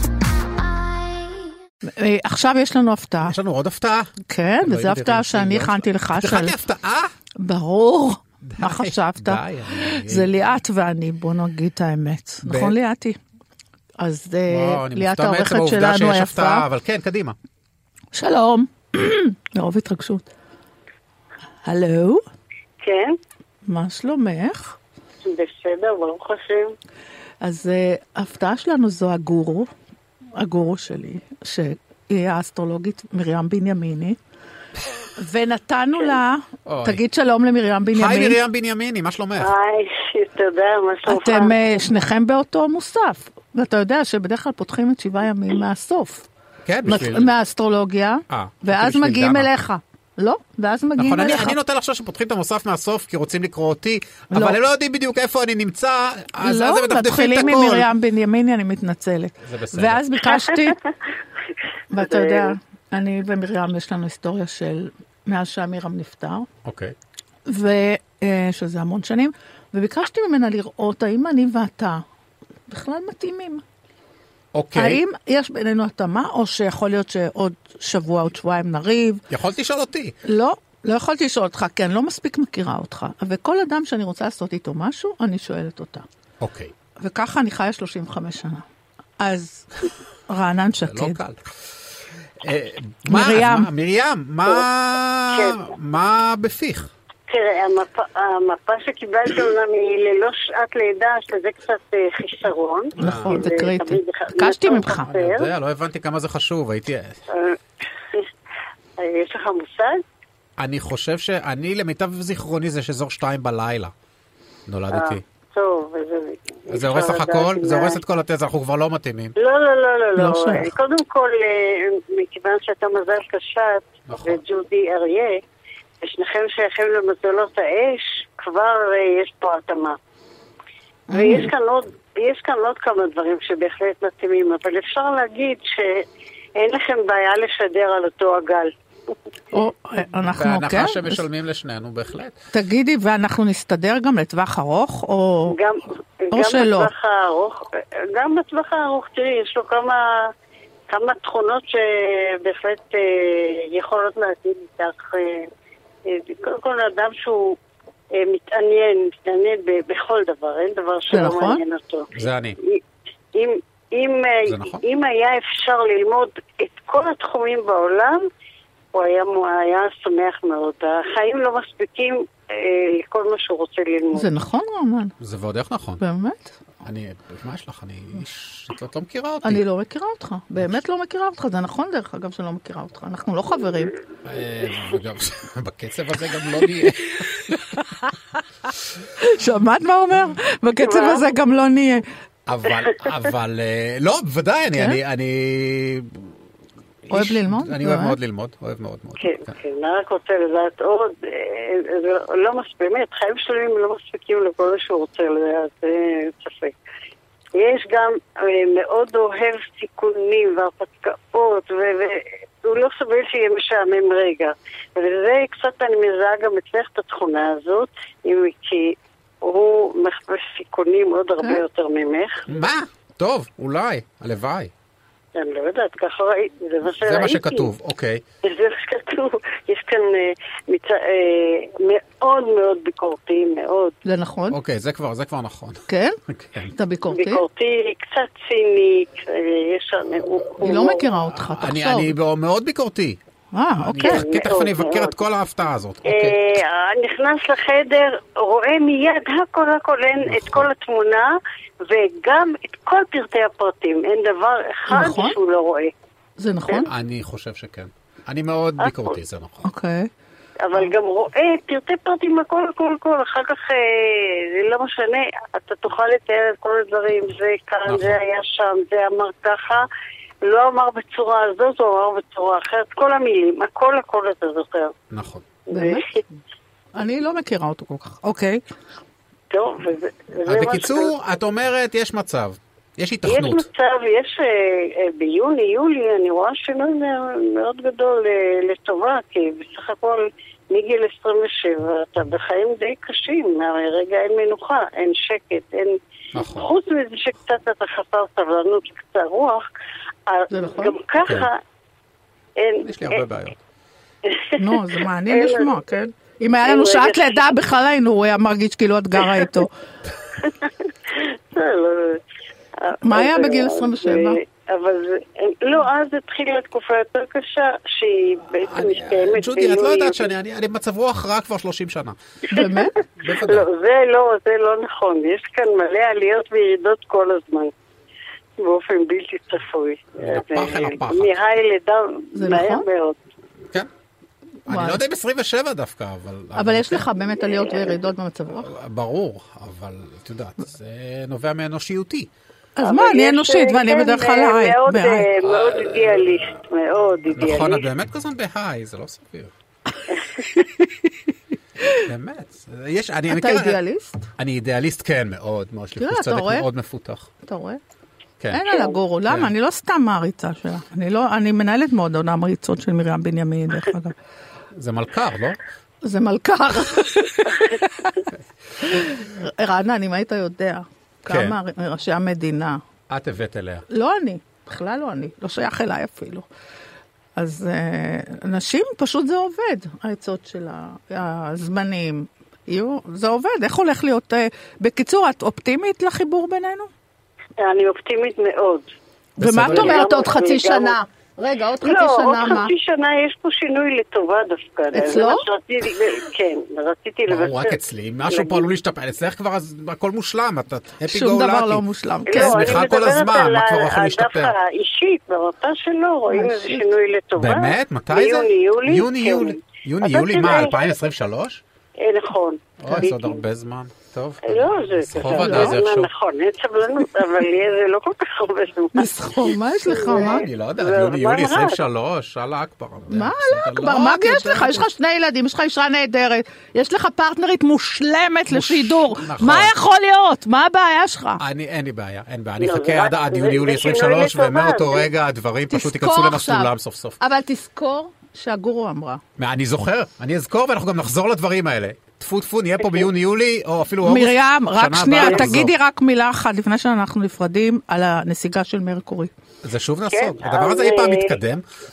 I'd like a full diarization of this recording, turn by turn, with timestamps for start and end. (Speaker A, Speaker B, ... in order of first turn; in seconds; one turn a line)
Speaker A: 1.8-3.4
Speaker B: 3.2-4.1
Speaker A: 4.2-6.6
Speaker B: 4.6-7.1
Speaker A: 7.4-13.2
Speaker B: 8.4-10.4
Speaker B: 12.4-12.7
Speaker A: 14.0-16.7
Speaker B: 14.5-17.4
Speaker A: 18.1-20.3
Speaker A: 21.6-22.2
Speaker C: 22.8-23.1
Speaker A: 23.6-24.8
Speaker C: 25.2-26.7
Speaker A: 27.4-29.7
Speaker A: 30.4-34.2
Speaker A: 35.2-38.4
Speaker B: 36.7-37.0
Speaker B: 37.9-39.5
Speaker C: 39.4-41.9
Speaker A: 41.1-46.3
Speaker B: 46.6-47.3
Speaker A: 46.9-51.6
Speaker B: 48.3-49.5
Speaker B: 51.0-57.9
Speaker A: 54.3-54.6
Speaker A: 56.4-60.8
Speaker B: 59.4-60.0
Speaker A: 61.9-66.5
Speaker C: 62.0-62.5
Speaker B: 66.6-66.9
Speaker A: 67.5-72.0
Speaker A: 72.7-73.6
Speaker B: 74.5-75.0
Speaker A: 74.7-79.2
Speaker B: 79.3-80.1
Speaker A: 80.2-86.0
Speaker B: 86.4-86.7
Speaker A: 87.0-88.6
Speaker A: 89.2-91.2
Speaker B: 90.8-91.4
Speaker B: 92.4-96.9
Speaker A: 93.1-93.7
Speaker C: 95.3-95.7
Speaker C: 97.3-105.5
Speaker A: 103.0-105.1
Speaker B: 103.0-103.4
Speaker B: 104.9-107.2
Speaker C: 107.3-107.6
Speaker C: 109.0-110.0
Speaker B: 110.6-113.9
Speaker B: 114.7-115.2
Speaker C: 114.9-118.0
Speaker B: 116.7-119.3
Speaker C: 119.4-125.3
Speaker A: 120.2-120.7
Speaker B: 124.1-124.4
Speaker C: 126.0-130.0
Speaker A: 131.1-131.5
Speaker C: 131.1-136.0
Speaker C: 136.6-138.7
Speaker A: 139.5-141.2
Speaker B: 140.3-142.4
Speaker A: 142.5-145.6
Speaker C: 145.5-150.1
Speaker A: 146.3-146.9
Speaker C: 150.9-155.5
Speaker C: 156.0-157.6
Speaker C: 158.1-162.1
Speaker A: 161.1-161.6
Speaker B: 162.1-162.6
Speaker C: 163.3-168.2
Speaker B: 164.4-164.8
Speaker C: 168.9-174.2
Speaker A: 174.1-175.1
Speaker B: 175.2-176.0
Speaker A: 176.0-176.5
Speaker B: 176.8-179.6
Speaker A: 179.4-183.9
Speaker B: 184.2-187.6
Speaker A: 187.5-188.1
Speaker A: 189.2-192.0
Speaker C: 190.8-191.2
Speaker B: 192.5-196.3
Speaker B: 197.0-199.5
Speaker A: 197.1-198.2
Speaker C: 199.2-206.8
Speaker C: 207.6-222.4
Speaker B: 222.5-224.7
Speaker C: 225.3-227.7
Speaker B: 226.9-228.2
Speaker C: 228.4-233.9
Speaker A: 234.0-234.6
Speaker B: 234.5-236.7
Speaker A: 235.9-237.4
Speaker C: 237.1-241.1
Speaker A: 240.6-242.2
Speaker B: 241.3-243.2
Speaker A: 243.5-244.3
Speaker B: 243.8-246.4
Speaker C: 244.0-245.2
Speaker C: 246.1-251.3
Speaker B: 250.2-250.7
Speaker C: 251.9-255.9
Speaker A: 254.9-255.3
Speaker A: 256.4-256.9
Speaker B: 256.9-259.7
Speaker C: 258.8-259.1
Speaker A: 259.6-260.1
Speaker C: 260.6-269.8
Speaker B: 267.9-268.2
Speaker C: 270.4-274.9
Speaker B: 275.1-275.4
Speaker C: 275.7-276.0
Speaker A: 275.7-276.3
Speaker A: 276.9-278.6
Speaker C: 279.5-281.1
Speaker B: 280.5-283.7
Speaker C: 283.2-295.9
Speaker B: 296.3-296.7
Speaker C: 296.5-299.6
Speaker C: 300.3-301.6
Speaker A: 300.5-300.9
Speaker B: 301.2-301.5
Speaker C: 302.6-303.2
Speaker B: 302.8-303.6
Speaker C: 304.2-304.6
Speaker A: 304.6-309.7
Speaker C: 305.3-305.7
Speaker C: 306.6-307.3
Speaker C: 310.4-312.2
Speaker C: 312.8-320.3
Speaker A: 313.0-314.4
Speaker B: 318.6-322.1
Speaker A: 322.5-322.9
Speaker C: 322.5-327.7
Speaker B: 323.2-323.7
Speaker C: 328.6-333.2
Speaker B: 330.2-331.3
Speaker A: 332.3-332.8
Speaker B: 334.6-337.1
Speaker A: 334.7-335.0
Speaker A: 336.5-338.7
Speaker C: 337.4-338.1
Speaker B: 338.6-342.3
Speaker A: 342.8-345.3
Speaker C: 342.8-347.8
Speaker B: 345.4-346.3
Speaker B: 347.3-349.5
Speaker B: 352.0-353.8
Speaker A: 353.3-354.3
Speaker B: 354.4-357.3
Speaker A: 356.0-356.6
Speaker A: 357.4-357.8
Speaker A: 358.5-364.1
Speaker C: 358.7-359.0
Speaker B: 364.8-365.6
Speaker A: 366.0-368.2
Speaker A: 368.8-372.8
Speaker B: 371.2-371.6
Speaker B: 373.1-373.9
Speaker A: 373.9-376.5
Speaker A: 377.4-386.9
Speaker C: 387.6-388.9
Speaker A: 389.4-392.7
Speaker B: 389.4-390.0
Speaker C: 389.6-391.0
Speaker C: 391.8-398.7
Speaker A: 394.9-395.4
Speaker B: 397.3-404.5
Speaker A: 401.0-402.8
Speaker C: 402.3-410.8
Speaker A: 406.3-406.9
Speaker B: 407.4-411.6
Speaker C: 412.0-413.4
Speaker B: 412.8-416.1
Speaker C: 414.5-421.8
Speaker A: 415.2-415.8
Speaker A: 418.9-420.5
Speaker B: 420.0-424.9
Speaker A: 423.1-431.4
Speaker B: 428.5-429.7
Speaker B: 431.4-437.2
Speaker C: 432.6-435.1
Speaker A: 435.7-439.2
Speaker B: 439.4-445.7
Speaker C: 442.8-443.1
Speaker A: 444.0-449.3
Speaker C: 445.2-445.5
Speaker B: 449.6-451.6
Speaker C: 450.1-451.3